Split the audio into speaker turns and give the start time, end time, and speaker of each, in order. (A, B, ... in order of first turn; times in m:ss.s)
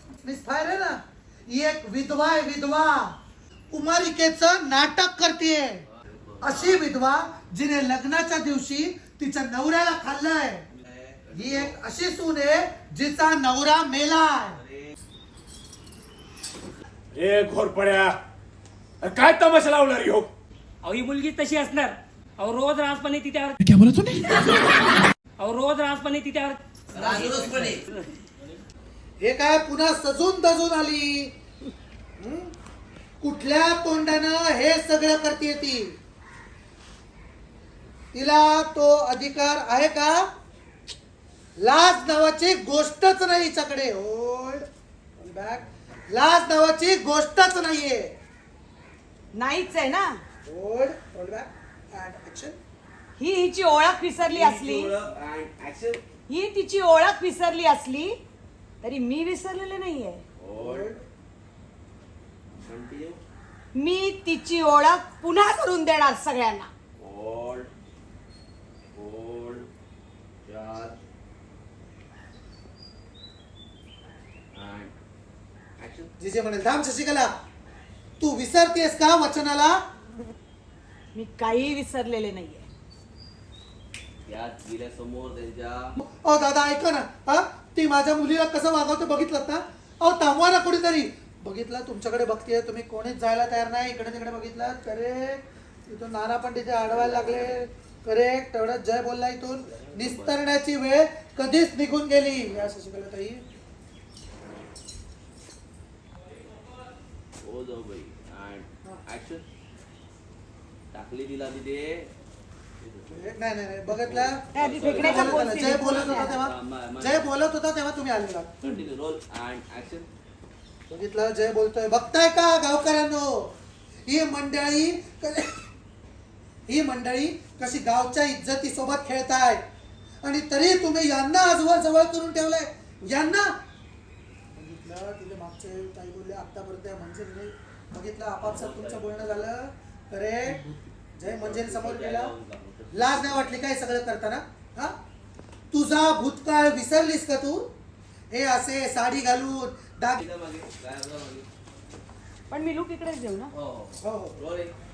0:00.2-0:03.2 A
0:03.7-0:05.8 A
0:05.9-0:06.9 B
0:06.4-0:10.6 A
0:10.7-0:11.8 B
0:11.3-0:14.6 A
0:14.6-0:14.9 B
0:17.1-0:18.2 C
0:19.0-0:20.3 C
0:20.8-0:23.6 D
0:25.4-0:27.1 D
0:26.9-0:27.8 B
0:29.2-0:31.3 A
0:32.2-0:32.5 A
0:33.2-0:36.0 A
0:38.1-0:40.3 A
0:41.6-0:44.6 A
0:45.2-0:48.1 A
0:49.3-0:50.2 E
0:50.4-0:52.6 A
0:53.2-0:54.9 E
0:54.2-0:56.0 B
0:56.3-0:58.1 E
0:58.8-1:00.2 E
1:00.4-1:00.9 B
1:00.6-1:01.0 A
1:02.6-1:03.2 B
1:03.7-1:06.7 E
1:07.0-1:07.7 B
1:09.0-1:09.7 B
1:10.4-1:11.0 B
1:14.5-1:14.9 B
1:15.8-1:16.1 B
1:16.2-1:17.3 A
1:18.2-1:19.8 A
1:21.1-1:22.7 E
1:24.2-1:25.9 B
1:26.0-1:43.4 A
1:36.9-1:37.6 B
1:39.7-1:40.4 B
1:47.4-1:49.4 B
1:50.9-1:52.1 B
1:52.8-1:53.3 B
1:53.1-1:58.7 A
1:53.9-1:57.3 B
1:54.5-1:56.3 E
1:58.6-2:00.1 B
2:00.9-2:03.5 A
2:04.1-2:05.6 A
2:06.7-2:09.6 A
2:10.2-2:13.6 A
2:14.5-2:22.3 A
2:18.4-2:19.5 B
2:21.2-2:23.6 B
2:22.9-2:25.0 A
2:25.7-2:27.7 A
2:28.3-2:30.2 A
2:30.2-2:31.5 B
2:32.5-2:33.5 E
2:33.5-2:34.7 B
2:34.0-2:34.4 A